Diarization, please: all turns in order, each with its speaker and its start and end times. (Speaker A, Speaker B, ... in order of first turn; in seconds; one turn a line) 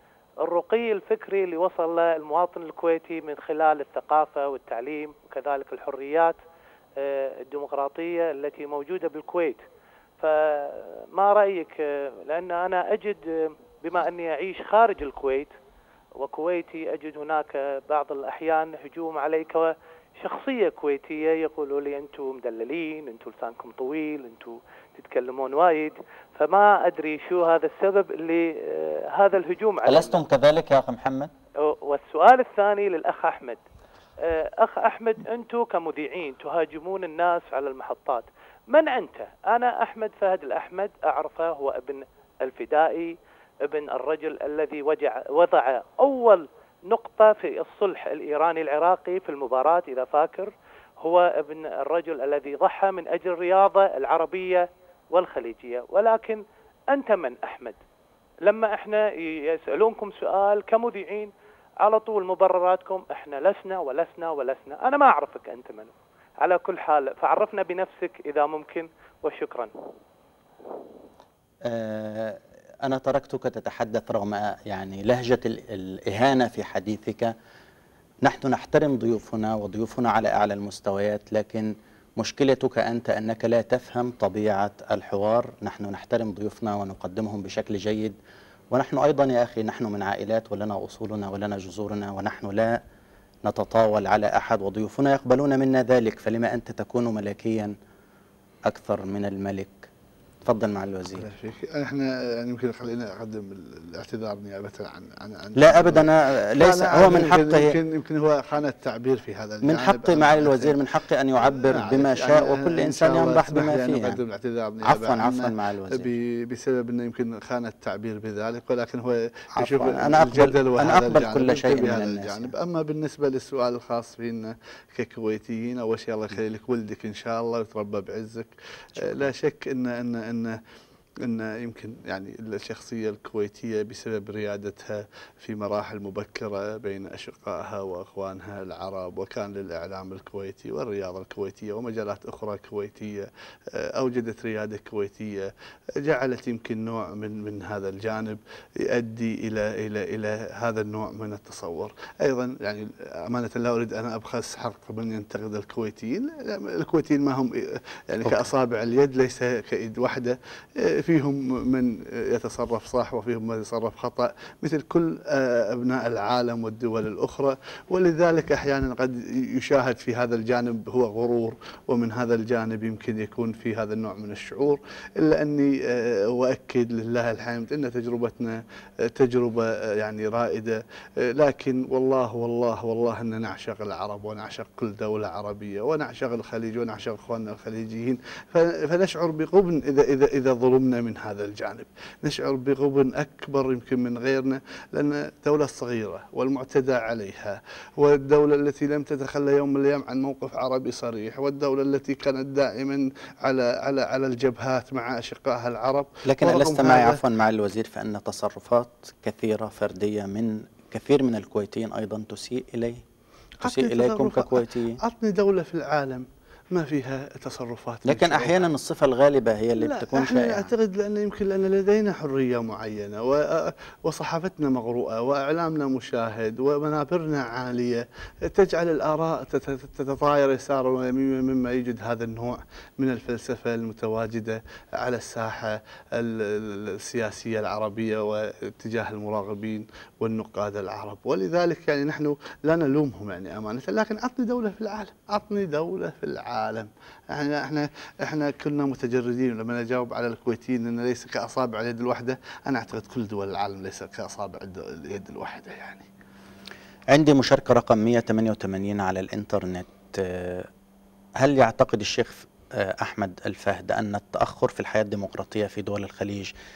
Speaker A: 0.4-6.4
Speaker A: 7.0-9.6
Speaker A: 10.2-15.5
Speaker A: 16.2-30.2
Speaker B: 29.9-31.3
Speaker A: 31.6-33.6
Speaker A: 34.2-57.8
Speaker A: 58.5-61.3
Speaker A: 61.8-69.7
Speaker B: 71.6-77.3
Speaker B: 78.2-88.2
Speaker B: 88.7-92.8
Speaker B: 93.5-97.7
Speaker B: 98.7-99.9
Speaker B: 100.4-101.3
Speaker C: 101.2-110.8
Speaker B: 105.6-107.8
Speaker B: 109.6-114.2
Speaker C: 111.4-130.6
Speaker B: 114.8-116.1
Speaker B: 119.6-122.5
Speaker B: 129.0-129.3
Speaker C: 131.2-207.2
Speaker B: 158.2-158.5
Speaker B: 206.2-213.0
Speaker C: 213.6-218.7
Speaker B: 213.6-215.0
Speaker B: 218.0-220.7
Speaker C: 219.8-256.1
Speaker B: 257.1-260.7
Speaker B: 261.4-266.5